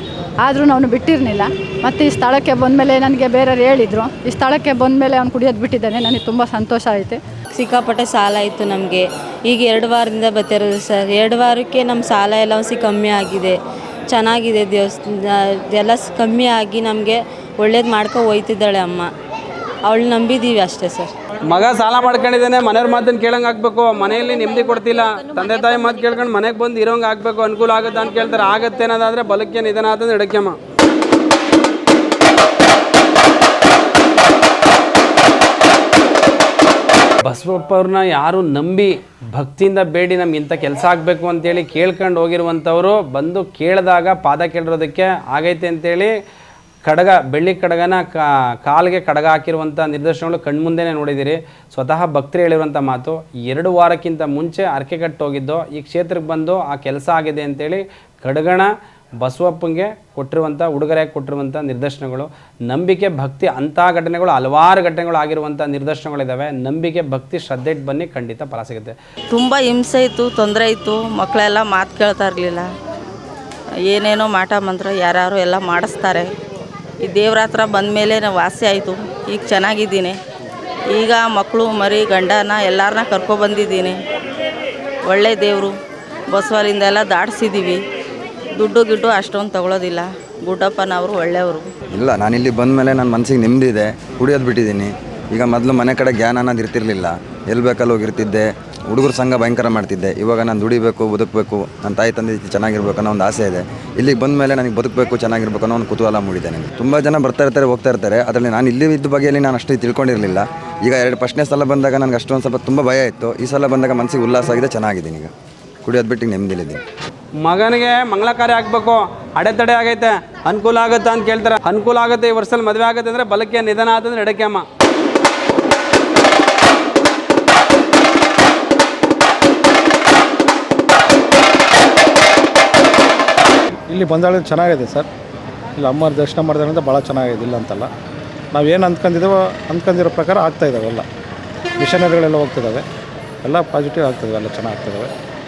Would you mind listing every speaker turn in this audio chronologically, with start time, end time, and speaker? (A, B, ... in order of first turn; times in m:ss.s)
0:00.4-0:07.2 A
0:07.5-0:13.6 B
0:14.1-0:19.1 B
0:19.8-0:21.1 B
0:21.4-0:30.6 C
0:37.2-0:46.1 C
0:46.8-0:58.7 C
0:59.2-1:09.0 C
1:09.3-1:12.7 D
1:13.9-1:16.3 D
1:17.0-1:20.2 D
1:20.9-1:24.0 D
1:25.0-1:25.8 D
1:26.3-1:27.8 D
1:28.6-1:31.6 D
1:31.9-1:55.3 E
1:55.8-1:56.8 E
1:57.4-2:04.6 C
2:13.9-2:15.1 F
2:15.8-2:17.9 F
2:18.5-2:21.0 F
2:21.8-2:22.8 F
2:23.4-2:25.1 F